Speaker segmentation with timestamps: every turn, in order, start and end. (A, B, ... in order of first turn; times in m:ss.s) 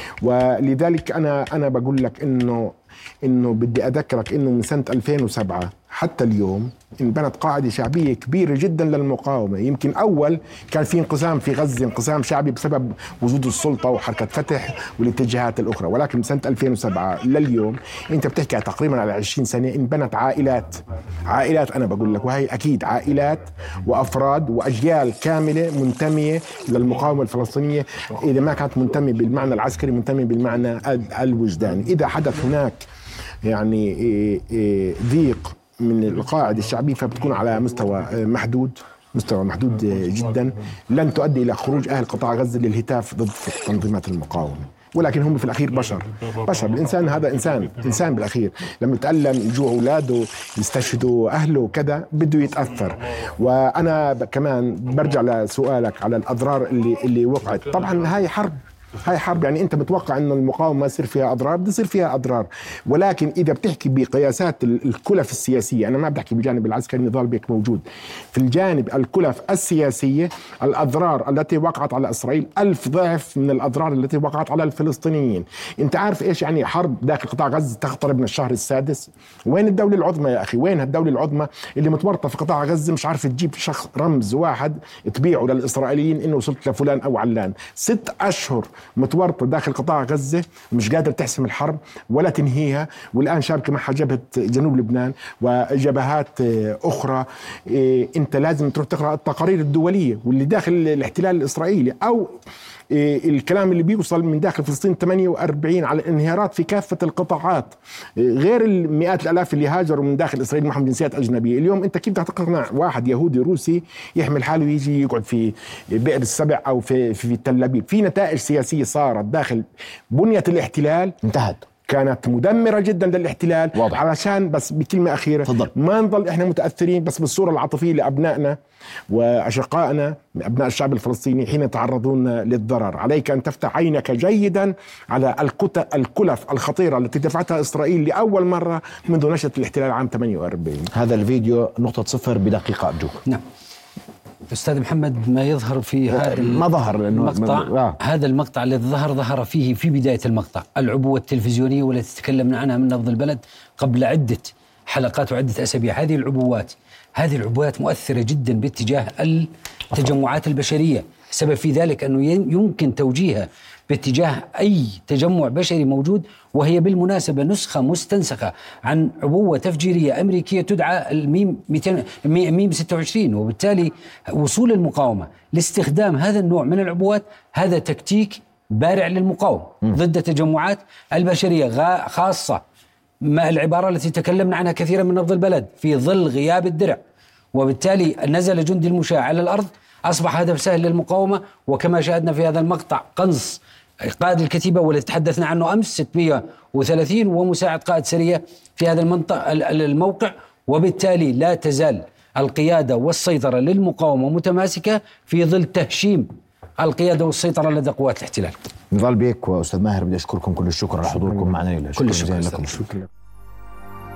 0:00.2-0:32.8 A
0:33.4-1:42.4 A
1:42.9-2:01.2 A
2:01.2-2:01.6 B
2:01.9-2:08.6 A
2:03.7-2:04.0 B
2:05.4-2:05.7 B
2:09.1-2:20.9 A
2:20.9-2:23.2 B
2:24.5-3:02.6 C
2:26.1-2:28.0 B
3:03.2-3:07.0 C
3:07.5-3:28.5 C
3:28.9-3:32.9 B
3:32.0-3:32.8 C